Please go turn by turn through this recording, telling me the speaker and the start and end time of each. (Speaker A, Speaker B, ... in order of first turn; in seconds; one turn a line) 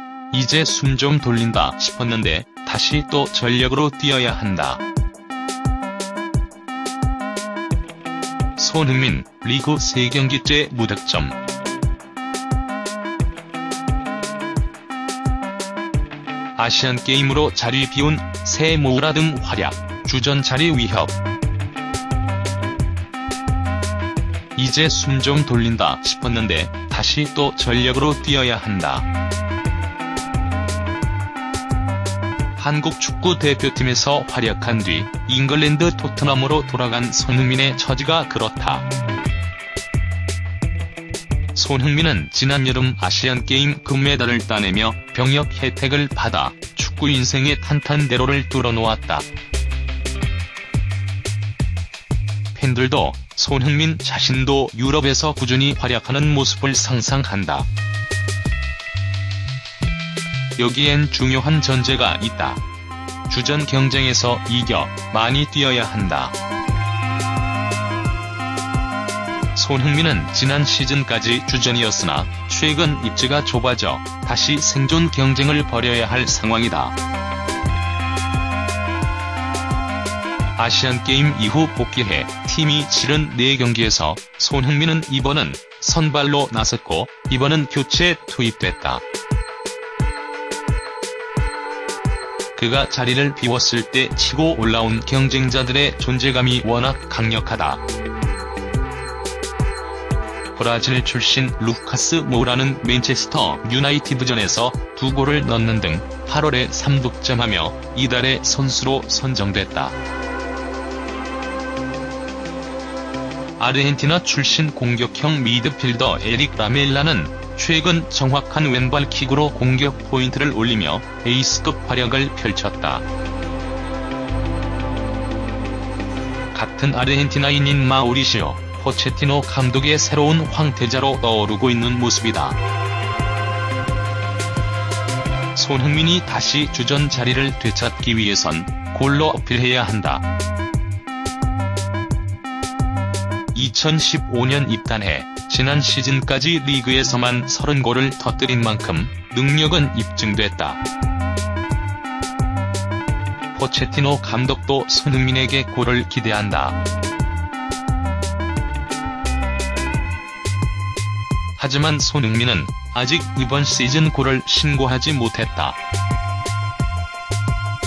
Speaker A: 0.3-4.8
Speaker A: 8.6-11.3
Speaker A: 16.6-21.1
Speaker A: 24.6-29.1
Speaker A: 32.6-38.9
Speaker A: 41.5-49.2
Speaker A: 52.5-57.7
Speaker A: 60.6-62.6
Speaker A: 63.3-66.3
Speaker A: 69.5-76.9
Speaker A: 80.6-89.0
Speaker A: 92.5-97.8
Speaker A: 100.5-109.9
Speaker A: 113.6-123.0
Speaker A: 126.5-132.6
Speaker A: 135.5-140.2
Speaker A: 143.5-150.8
Speaker A: 153.5-156.8
Speaker A: 161.6-165.8